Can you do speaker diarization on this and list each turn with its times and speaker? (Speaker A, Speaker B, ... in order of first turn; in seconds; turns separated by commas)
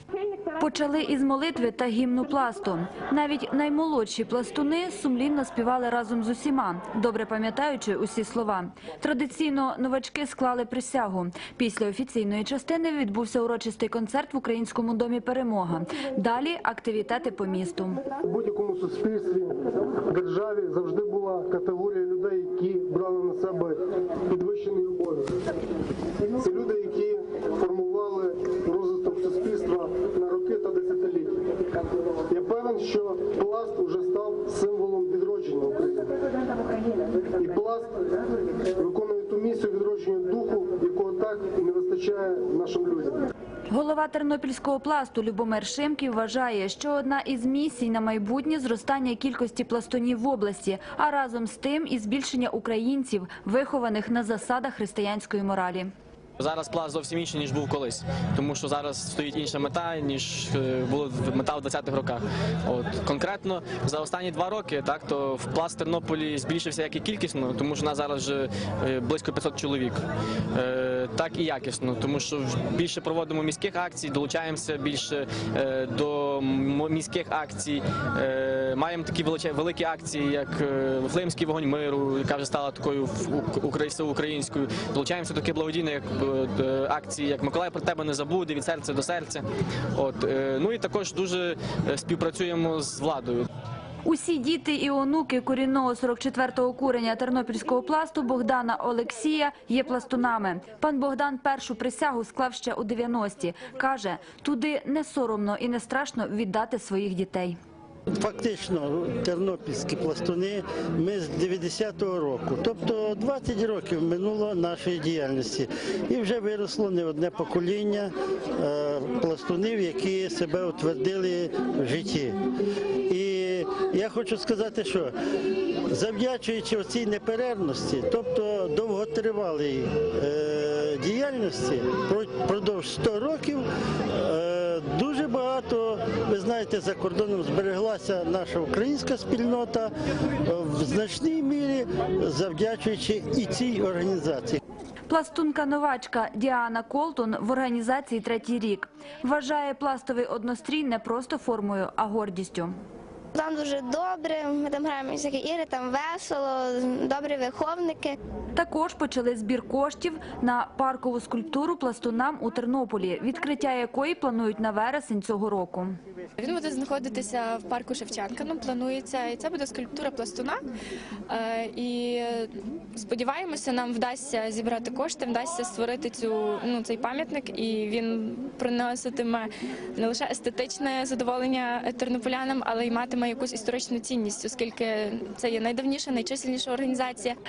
Speaker A: 0.5-18.0, Speaker B: 18.2-19.5, Speaker B: 20.1-25.3, Speaker B: 26.4-31.4, Speaker B: 32.3-36.1, Speaker B: 37.4-37.9, Speaker B: 38.8-43.3, Speaker A: 43.7-55.9, Speaker C: 56.4-70.0, Speaker C: 70.5-89.4, Speaker C: 90.0-93.5, Speaker A: 94.1-107.6, Speaker D: 108.2-122.4, Speaker D: 123.1-125.1, Speaker D: 125.9-139.9, Speaker D: 140.5-144.6, Speaker A: 145.1-152.8, Speaker E: 153.3-158.2, Speaker A: 158.6-165.9, Speaker F: 166.4-170.6, Speaker F: 171.3-187.4